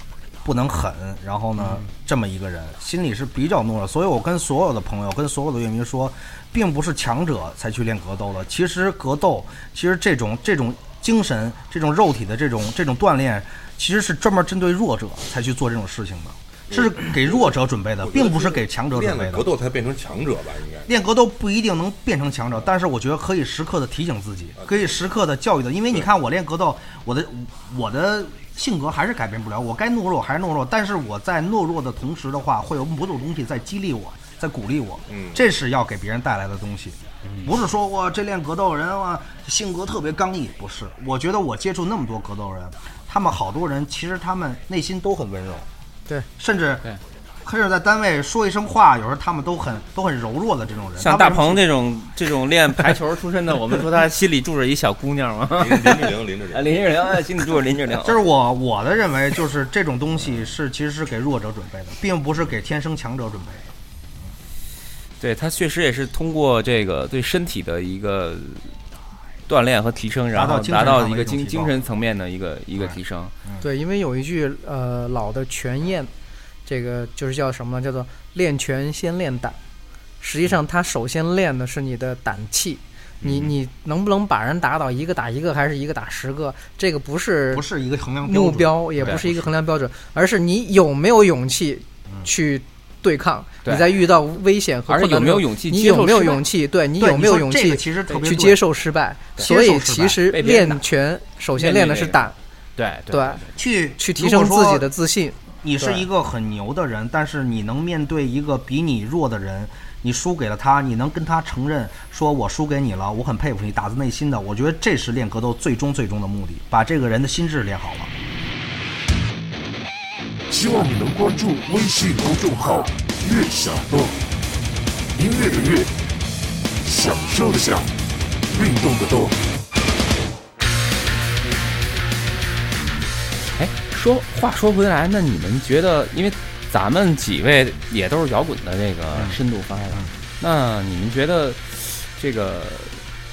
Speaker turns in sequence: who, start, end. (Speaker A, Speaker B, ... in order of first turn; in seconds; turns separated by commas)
Speaker A: 0.4-19.5, Speaker B: 16.7-17.5, Speaker B: 18.0-20.9, Speaker A: 20.9-45.7, Speaker B: 24.6-24.9, Speaker B: 35.1-35.4, Speaker C: 37.3-37.5, Speaker A: 46.4-46.9, Speaker A: 47.5-51.6, Speaker C: 51.0-58.2, Speaker B: 55.6-56.8, Speaker A: 58.0-63.7, Speaker C: 65.2-68.7, Speaker C: 69.5-73.3, Speaker A: 70.3-71.7, Speaker A: 72.8-73.6, Speaker D: 73.6-76.1, Speaker D: 76.7-79.6, Speaker D: 80.2-87.7, Speaker A: 87.5-89.5, Speaker D: 88.2-102.3, Speaker C: 94.9-96.5, Speaker A: 97.0-98.6, Speaker A: 99.4-100.2, Speaker C: 100.3-100.8, Speaker C: 101.6-102.2, Speaker C: 102.8-103.5, Speaker D: 103.1-103.4, Speaker A: 103.6-104.9, Speaker D: 104.0-106.0, Speaker A: 105.6-118.1, Speaker E: 120.5-124.1, Speaker E: 125.2-125.9, Speaker E: 126.9-127.9, Speaker E: 128.5-129.3, Speaker C: 133.6-143.0